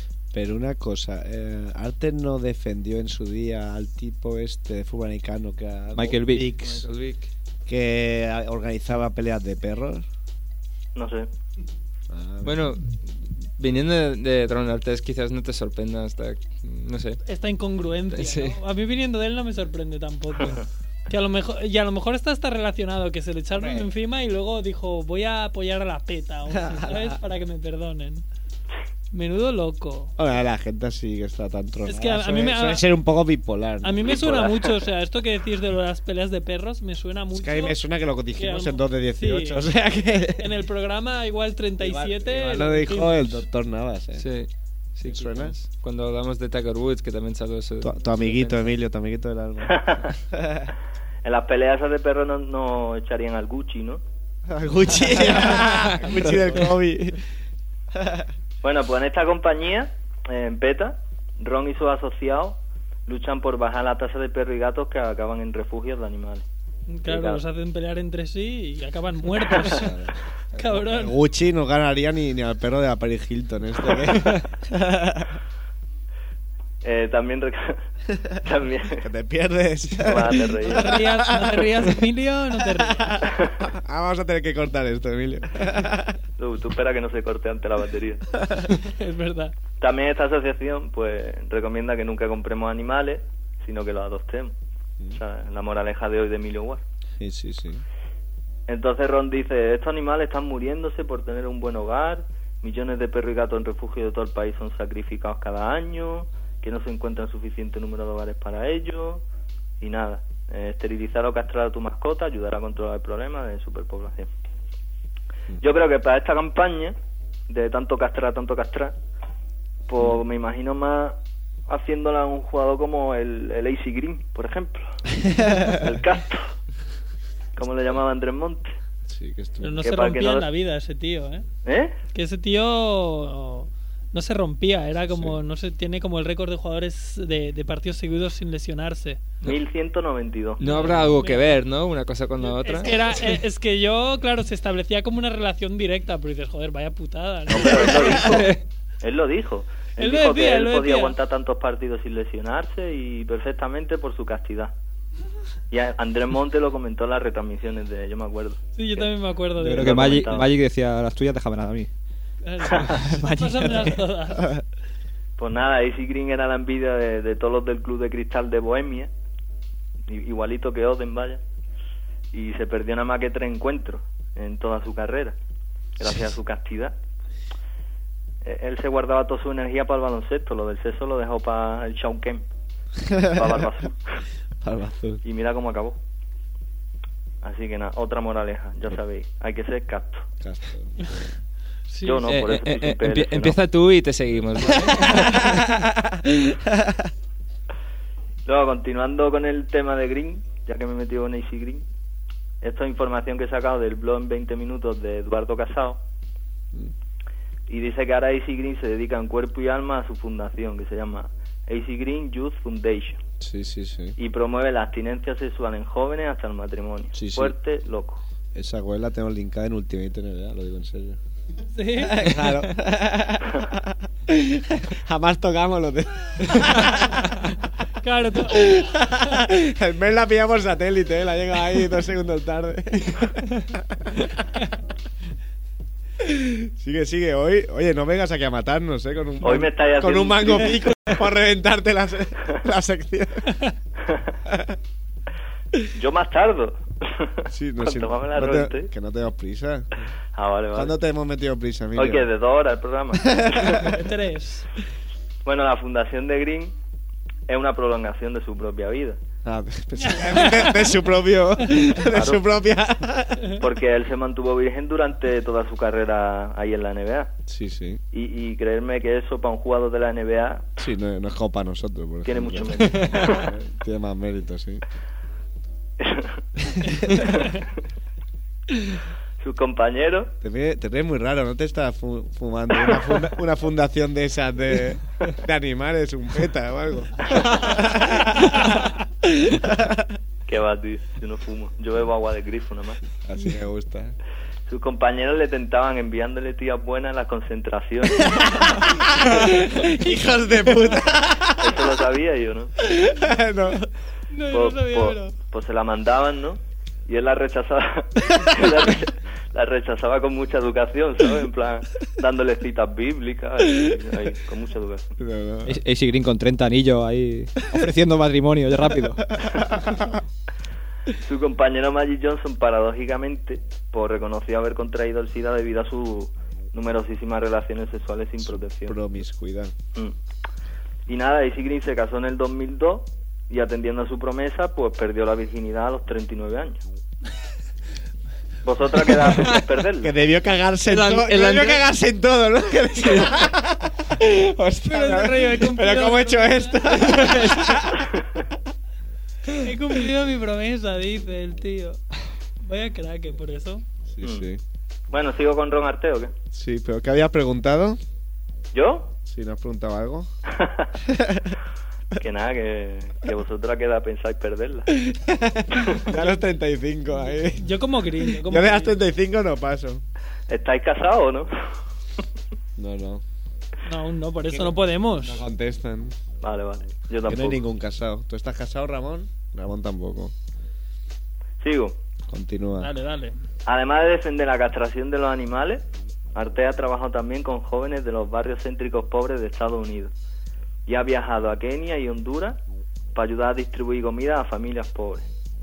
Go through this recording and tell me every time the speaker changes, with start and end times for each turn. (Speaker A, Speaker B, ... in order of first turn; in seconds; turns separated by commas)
Speaker A: 0.3-6.8, Speaker B: 5.9-6.5, Speaker C: 6.6-7.3, Speaker A: 7.7-10.1, Speaker D: 10.9-11.3, Speaker A: 12.1-12.7, Speaker C: 12.4-17.2, Speaker E: 17.2-28.2, Speaker C: 18.1-18.6, Speaker A: 23.6-23.8, Speaker A: 26.6-27.1, Speaker E: 29.1-30.1, Speaker A: 30.2-34.8, Speaker E: 31.8-32.8, Speaker E: 33.8-37.8, Speaker A: 37.3-40.5, Speaker E: 38.3-39.7, Speaker E: 40.4-43.4, Speaker A: 41.8-44.3, Speaker C: 44.2-48.7, Speaker A: 45.0-45.5, Speaker A: 47.8-50.7, Speaker D: 49.6-50.1, Speaker D: 51.2-54.0, Speaker A: 54.5-57.2, Speaker D: 58.6-66.4, Speaker E: 66.9-70.0, Speaker D: 67.0-67.4, Speaker A: 69.6-75.4, Speaker E: 70.5-71.2, Speaker D: 76.8-77.8, Speaker D: 78.4-79.0, Speaker A: 79.0-81.9, Speaker D: 80.0-80.9, Speaker E: 80.6-83.2, Speaker A: 82.7-86.2, Speaker D: 83.2-83.5, Speaker D: 86.4-88.2, Speaker E: 88.7-89.5, Speaker D: 89.8-94.5, Speaker D: 95.1-96.8, Speaker A: 97.2-97.8, Speaker D: 98.7-109.2, Speaker D: 109.8-114.3, Speaker D: 115.6-116.9, Speaker D: 117.5-118.9, Speaker D: 119.9-121.2, Speaker D: 121.7-126.6, Speaker D: 127.6-128.7, Speaker A: 129.1-129.8, Speaker E: 129.6-131.5, Speaker D: 129.8-130.5, Speaker D: 131.6-131.9, Speaker E: 132.1-139.3, Speaker A: 135.0-135.4, Speaker D: 139.4-140.6, Speaker C: 140.6-143.3, Speaker E: 140.7-141.6, Speaker E: 142.4-148.5, Speaker D: 147.5-148.5, Speaker C: 148.2-148.6, Speaker D: 149.0-154.7, Speaker E: 150.0-151.2, Speaker D: 155.7-159.1, Speaker E: 158.7-160.2, Speaker B: 159.6-161.9, Speaker D: 159.8-160.5, Speaker E: 162.4-164.5, Speaker B: 162.8-164.0, Speaker D: 165.4-169.1, Speaker D: 170.1-171.4, Speaker D: 172.3-175.3, Speaker D: 176.0-176.9, Speaker D: 178.4-182.5, Speaker A: 183.0-183.6, Speaker D: 183.3-184.2, Speaker A: 184.6-185.2, Speaker D: 185.2-186.0, Speaker D: 187.4-190.2, Speaker A: 190.4-191.3, Speaker E: 191.9-192.3, Speaker D: 192.0-193.6, Speaker C: 192.2-195.4, Speaker A: 195.0-195.6, Speaker D: 198.4-201.8, Speaker D: 202.6-206.0, Speaker D: 207.7-213.2, Speaker A: 213.4-214.2, Speaker D: 214.2-218.2, Speaker A: 217.1-217.5, Speaker A: 218.5-221.2, Speaker E: 221.7-222.2, Speaker A: 221.9-227.4, Speaker E: 228.0-229.3, Speaker A: 228.5-234.3, Speaker A: 236.2-243.5, Speaker D: 239.4-240.8, Speaker D: 244.0-244.3, Speaker A: 244.5-244.8, Speaker D: 245.9-248.9, Speaker A: 247.5-250.1, Speaker D: 250.3-250.9, Speaker A: 250.7-252.3, Speaker D: 251.9-253.9, Speaker A: 253.3-253.9, Speaker E: 253.8-254.7, Speaker D: 255.4-256.7, Speaker D: 257.5-259.2, Speaker A: 259.4-263.6, Speaker E: 260.0-260.9, Speaker D: 262.0-262.4, Speaker D: 263.6-267.3, Speaker A: 267.5-268.0, Speaker D: 268.1-270.7, Speaker A: 270.8-274.8, Speaker D: 272.2-273.5, Speaker D: 276.0-276.4, Speaker D: 277.1-277.5, Speaker D: 279.4-280.3, Speaker A: 280.4-288.9, Speaker D: 287.3-287.5, Speaker A: 289.5-290.0, Speaker D: 290.5-293.0, Speaker A: 293.2-294.1, Speaker D: 294.7-298.4, Speaker A: 298.2-301.8, Speaker D: 301.6-302.7, Speaker A: 302.9-303.9, Speaker E: 304.3-305.3, Speaker D: 304.5-315.1, Speaker A: 315.2-315.8, Speaker B: 315.6-319.2, Speaker A: 319.4-320.1, Speaker D: 321.2-329.0, Speaker A: 328.4-329.7, Speaker D: 331.1-336.8, Speaker D: 338.6-340.1, Speaker A: 340.0-348.0, Speaker C: 340.9-341.9, Speaker E: 344.8-347.4, Speaker E: 349.6-352.0, Speaker E: 352.6-353.8, Speaker A: 354.1-354.6, Speaker D: 354.2-354.5, Speaker D: 355.1-356.3, Speaker A: 356.5-358.0, Speaker D: 358.7-359.1, Speaker A: 359.2-360.3, Speaker D: 360.5-360.9, Speaker A: 361.1-361.5, Speaker D: 362.2-364.9, Speaker A: 365.0-370.0, Speaker E: 367.5-368.9, Speaker D: 370.5-371.7, Speaker A: 372.8-373.2, Speaker E: 373.8-375.4, Speaker A: 374.5-376.1, Speaker D: 376.4-377.6, Speaker A: 377.2-380.3, Speaker D: 381.6-381.9, Speaker A: 382.3-382.9, Speaker E: 382.8-383.4, Speaker D: 383.6-385.8, Speaker D: 386.3-390.1, Speaker D: 390.9-392.6, Speaker D: 393.1-395.3